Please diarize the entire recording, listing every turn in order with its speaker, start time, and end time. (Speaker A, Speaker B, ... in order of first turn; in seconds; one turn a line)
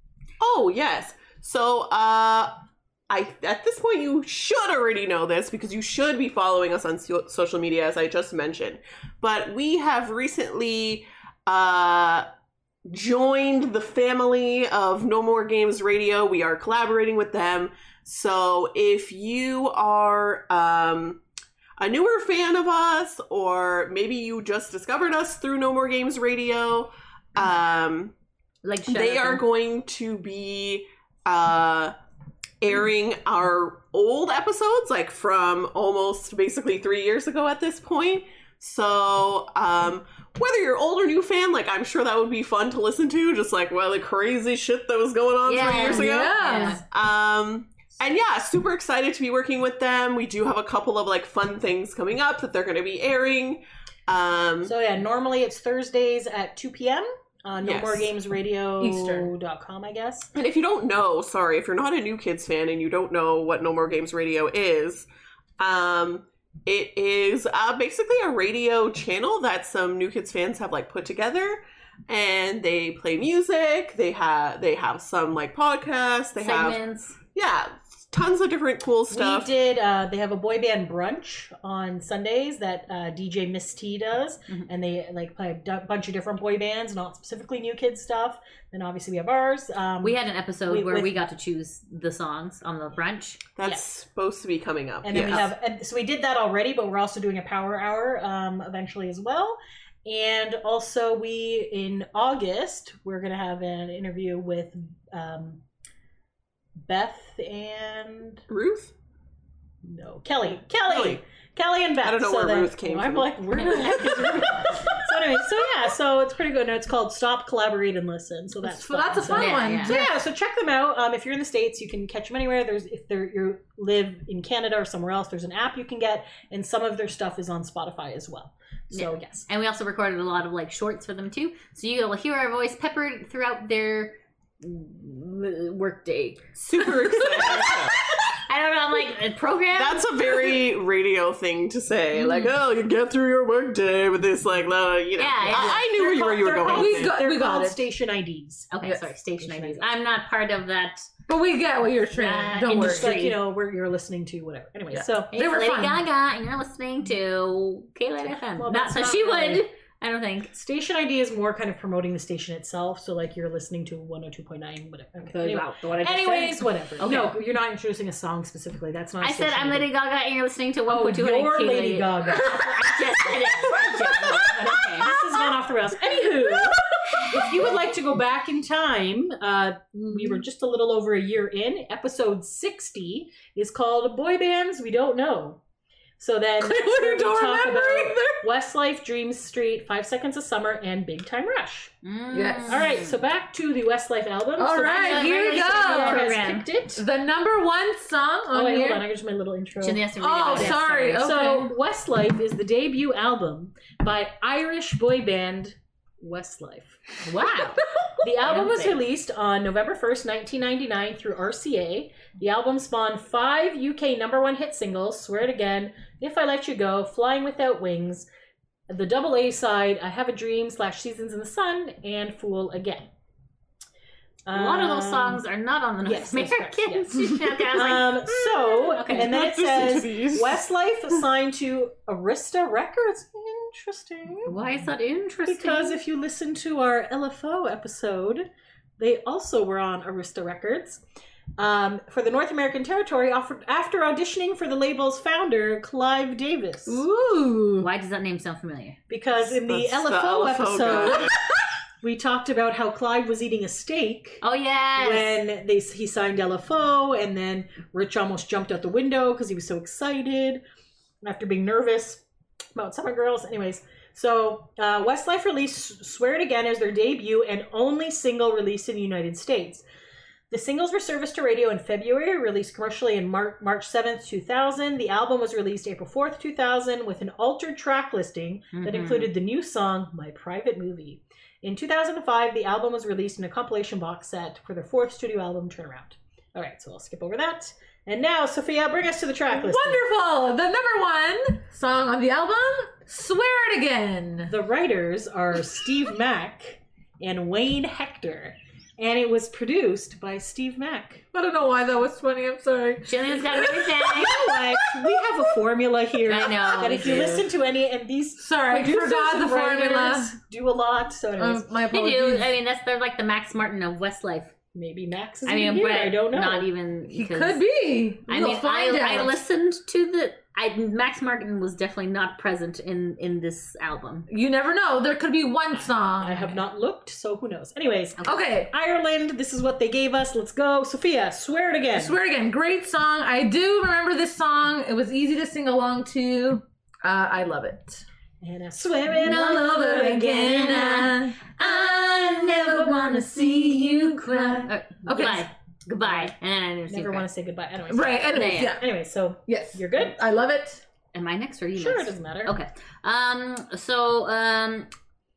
Speaker A: 0.4-12.3
Speaker A: 12.8-21.2
Speaker A: 21.8-28.1
Speaker B: 28.6-29.4
Speaker A: 28.9-31.9
Speaker A: 32.6-54.7
Speaker B: 45.4-46.8
Speaker C: 45.7-46.8
Speaker D: 54.6-60.3
Speaker A: 57.6-58.1
Speaker C: 58.8-59.3
Speaker A: 60.3-65.1
Speaker A: 65.6-76.8
Speaker B: 76.4-77.2
Speaker A: 77.3-79.5
Speaker D: 79.1-91.2
Speaker B: 90.0-93.4
Speaker A: 93.5-95.5
Speaker D: 95.0-105.6
Speaker D: 106.8-108.4
Speaker A: 108.5-108.9
Speaker D: 109.8-129.5
Speaker A: 110.9-111.2
Speaker A: 112.0-115.1
Speaker C: 118.6-120.2
Speaker B: 119.3-120.0
Speaker B: 128.9-140.6
Speaker A: 136.6-138.0
Speaker A: 139.7-147.2
Speaker B: 142.1-142.5
Speaker B: 145.2-145.9
Speaker D: 145.5-148.7
Speaker C: 146.6-147.8
Speaker B: 148.7-151.1
Speaker D: 149.4-149.8
Speaker C: 151.3-153.3
Speaker B: 152.1-153.3
Speaker D: 152.7-155.3
Speaker C: 154.9-156.0
Speaker B: 155.3-160.5
Speaker D: 158.3-159.7
Speaker D: 160.5-169.9
Speaker B: 165.3-167.3
Speaker B: 169.2-175.2
Speaker D: 170.9-185.6
Speaker C: 174.2-175.2
Speaker C: 176.7-177.3
Speaker C: 179.9-180.4
Speaker D: 186.2-191.9
Speaker C: 186.6-188.4
Speaker B: 192.0-193.2
Speaker C: 192.3-192.8
Speaker D: 192.7-197.0
Speaker C: 194.6-196.4
Speaker B: 194.8-196.7
Speaker C: 196.9-199.0
Speaker D: 198.5-207.0
Speaker B: 199.8-201.2
Speaker C: 200.2-201.7
Speaker B: 207.2-207.9
Speaker D: 208.2-218.3
Speaker B: 208.4-209.0
Speaker D: 218.9-223.1
Speaker D: 224.4-225.4
Speaker B: 224.5-229.4
Speaker D: 226.0-234.6
Speaker A: 229.1-230.6
Speaker B: 234.5-236.0
Speaker D: 235.4-241.0
Speaker D: 241.6-247.0
Speaker C: 246.9-247.9
Speaker B: 247.8-249.0
Speaker D: 249.1-251.3
Speaker A: 249.6-251.4
Speaker D: 252.0-254.4
Speaker B: 254.4-255.4
Speaker D: 255.0-260.6
Speaker D: 261.2-262.2
Speaker D: 262.7-269.8
Speaker D: 270.5-290.0
Speaker B: 278.7-279.3
Speaker C: 289.5-294.5
Speaker D: 294.5-301.2
Speaker C: 301.3-305.1
Speaker B: 303.0-304.5
Speaker D: 304.1-311.7
Speaker B: 306.3-307.4
Speaker C: 308.4-310.3
Speaker C: 311.4-312.5
Speaker B: 311.9-314.5
Speaker D: 314.7-316.7
Speaker B: 315.4-317.6
Speaker C: 317.1-319.4
Speaker B: 318.3-324.3
Speaker C: 324.3-326.6
Speaker D: 326.2-332.2
Speaker C: 328.2-328.7
Speaker C: 331.9-338.0
Speaker D: 338.4-340.9
Speaker C: 339.1-341.4
Speaker B: 339.9-347.2
Speaker C: 344.5-345.5
Speaker D: 346.0-346.3
Speaker D: 346.9-350.1
Speaker C: 347.9-348.8
Speaker B: 348.3-348.8
Speaker C: 349.5-350.8
Speaker B: 351.1-354.9
Speaker D: 351.8-352.6